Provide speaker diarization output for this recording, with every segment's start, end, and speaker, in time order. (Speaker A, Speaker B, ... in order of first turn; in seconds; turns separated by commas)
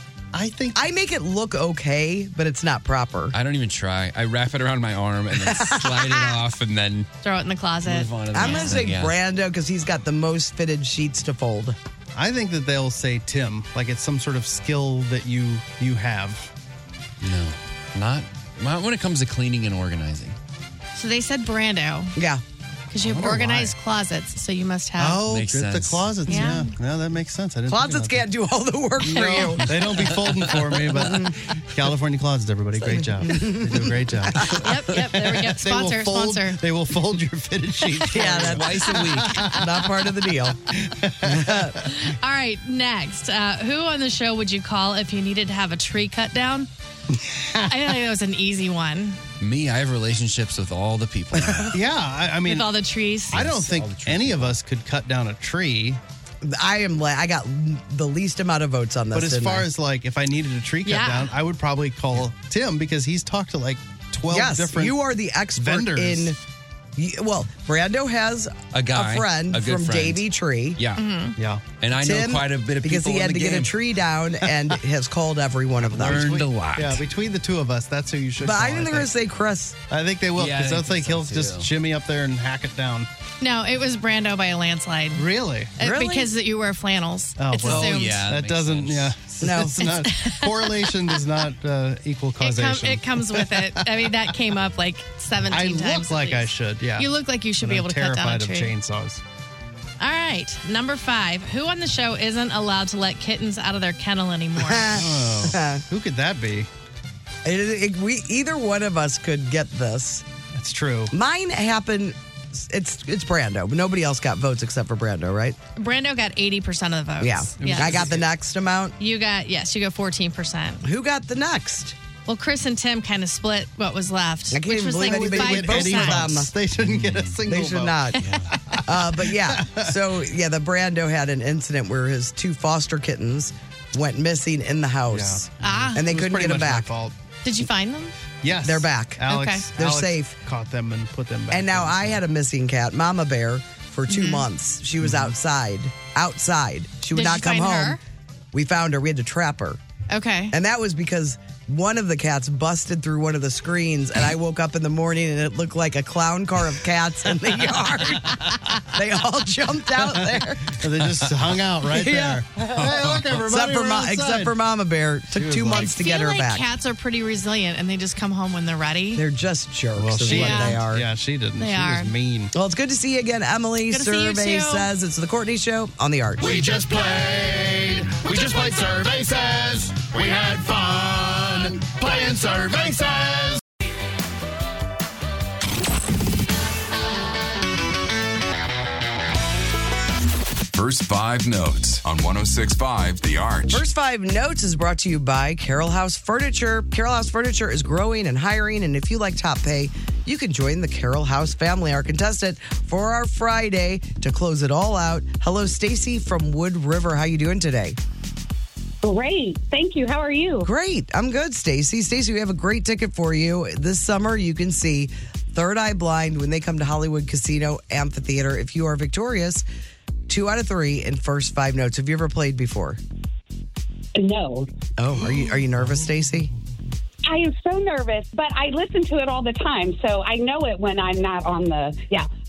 Speaker A: 0.3-0.8, Speaker B: 0.8-3.4, Speaker C: 3.3-7.1, Speaker B: 5.3-6.4, Speaker D: 7.2-8.8, Speaker C: 7.8-9.1, Speaker B: 8.3-11.8, Speaker A: 12.2-16.5, Speaker C: 17.2-20.4, Speaker D: 21.0-22.1, Speaker B: 22.2-22.4, Speaker D: 22.9-25.2, Speaker A: 23.0-23.7, Speaker A: 25.0-28.2, Speaker C: 25.2-26.5, Speaker D: 26.3-26.7, Speaker B: 27.7-29.8, Speaker A: 29.0-39.7, Speaker C: 29.6-30.6, Speaker B: 30.9-31.4, Speaker B: 32.8-34.7, Speaker D: 34.6-36.6, Speaker B: 38.1-40.6, Speaker C: 38.3-39.5, Speaker A: 40.8-41.7, Speaker B: 41.2-41.8, Speaker D: 41.9-46.7, Speaker A: 47.2-47.7, Speaker D: 47.7-49.2, Speaker C: 49.4-51.8, Speaker A: 51.6-52.7, Speaker D: 52.5-53.5, Speaker C: 53.3-54.6, Speaker A: 53.3-56.0, Speaker B: 56.4-59.7, Speaker A: 59.1-65.0, Speaker D: 60.8-61.4, Speaker B: 64.3-66.4, Speaker A: 65.6-66.4, Speaker B: 67.0-70.8, Speaker C: 68.7-70.2, Speaker C: 70.8-71.0, Speaker D: 71.0-71.4, Speaker A: 71.4-71.6, Speaker C: 71.8-73.7, Speaker B: 72.0-76.3, Speaker A: 75.8-79.1, Speaker C: 75.9-77.0, Speaker B: 78.4-79.8, Speaker A: 79.9-83.1, Speaker C: 80.4-81.7, Speaker D: 83.4-88.3, Speaker A: 85.2-85.7, Speaker B: 85.8-86.3, Speaker A: 87.4-94.2, Speaker C: 87.6-89.2, Speaker B: 89.4-89.9, Speaker D: 89.8-91.2, Speaker D: 92.4-98.7, Speaker A: 95.5-99.2, Speaker D: 100.0-104.9, Speaker B: 104.6-105.8, Speaker A: 104.9-106.7, Speaker B: 107.5-110.3, Speaker A: 110.5-111.1, Speaker B: 111.1-115.6, Speaker D: 115.8-118.0, Speaker B: 117.2-119.0, Speaker A: 117.6-118.3, Speaker D: 119.0-120.8, Speaker B: 120.8-122.0, Speaker D: 122.3-126.3, Speaker B: 124.5-126.5, Speaker A: 125.0-129.9, Speaker C: 126.8-127.4, Speaker B: 127.5-128.3, Speaker C: 128.2-128.5, Speaker B: 128.8-136.9, Speaker A: 135.1-137.2, Speaker D: 135.6-136.0, Speaker D: 137.4-138.3, Speaker A: 138.4-142.2, Speaker B: 138.6-140.4, Speaker D: 139.3-139.7, Speaker B: 141.5-148.0, Speaker D: 144.1-144.5, Speaker A: 145.0-145.3, Speaker D: 147.1-148.0, Speaker B: 148.5-149.8, Speaker D: 150.1-150.6, Speaker B: 150.5-160.8, Speaker A: 160.7-164.5, Speaker B: 161.9-166.7, Speaker C: 162.7-163.3, Speaker A: 165.3-166.1, Speaker D: 165.8-169.2, Speaker B: 169.1-171.1, Speaker A: 170.0-172.5, Speaker D: 170.2-170.8, Speaker D: 171.6-172.1, Speaker B: 172.5-176.7, Speaker D: 173.9-174.9, Speaker E: 176.8-183.1, Speaker F: 190.7-193.8, Speaker B: 193.7-208.0, Speaker G: 209.0-210.7, Speaker B: 210.6-219.7, Speaker B: 220.3-223.0, Speaker G: 224.2-224.7, Speaker B: 225.0-226.5, Speaker A: 225.8-226.2, Speaker G: 227.3-232.3